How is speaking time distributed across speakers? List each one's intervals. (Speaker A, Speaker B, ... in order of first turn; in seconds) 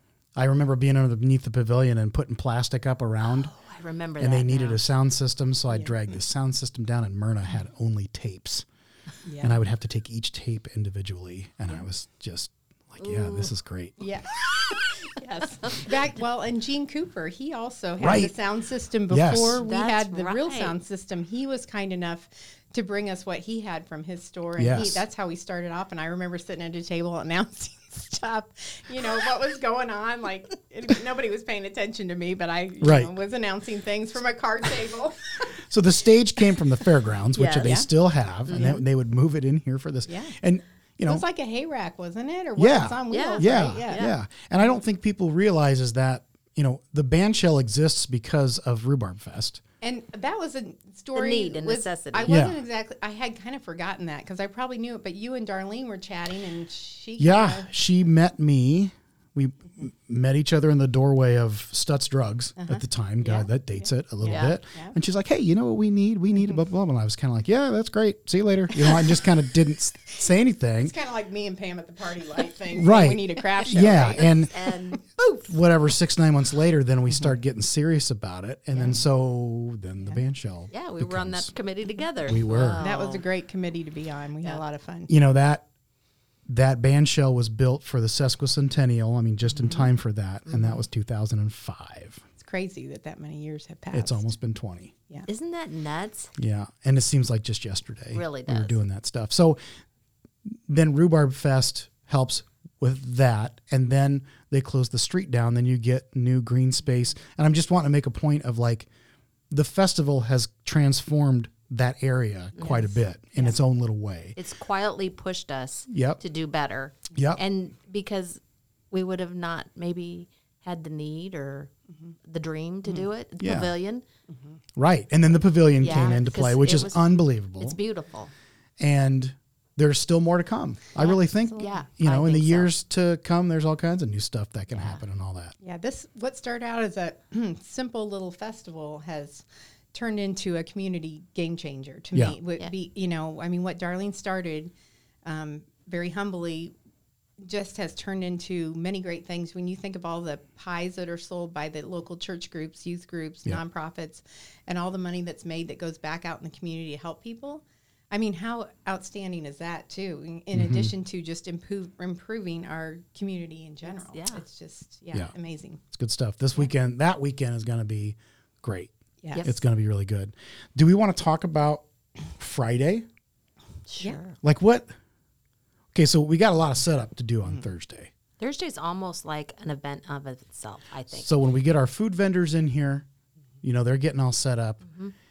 Speaker A: 0.4-3.5, 4.2-8.7, 9.4-14.1, 18.0-18.3, 19.1-19.6, 24.6-25.0, 32.8-33.1, 35.7-41.2, 42.6-49.6, 52.3-52.6, 57.2-70.9, 72.7-74.5, 75.5-81.5, 82.3-82.8, 85.1-85.7, 86.5-92.2, 93.9-94.9, 96.4-99.6, 100.5-108.9, 109.5-114.4, 115.9-116.2, 117.1-117.4, 123.4-123.7, 124.8-127.8, 128.8-135.6, 160.5-160.9, 165.9-168.9, 169.4-171.8, 172.4-173.1, 174.4-174.9, 175.9-178.1, 181.2-183.1, 183.6-184.8
Speaker B: 3.2-4.8, 13.0-13.5, 19.6-20.8, 37.3-37.8, 38.5-38.8, 43.1-44.1, 51.1-52.4, 64.2-64.6, 74.1-75.5, 80.7-83.2, 95.3-96.3, 98.1-98.8, 112.6-113.0, 114.4-118.4, 118.9-121.7, 122.3-124.0, 125.8-128.3, 131.6-132.7, 134.8-135.0, 163.9-164.4, 169.3-169.6, 173.9-174.4, 178.4-181.3
Speaker C: 9.3-9.6, 14.0-35.5, 38.5-38.8, 40.1-40.4, 41.1-44.1, 49.8-57.7, 62.6-65.0, 68.8-69.1, 70.8-74.3, 78.7-79.0, 82.8-85.1, 92.4-94.3, 131.0-131.9, 135.6-144.7, 145.2-146.7, 147.4-165.8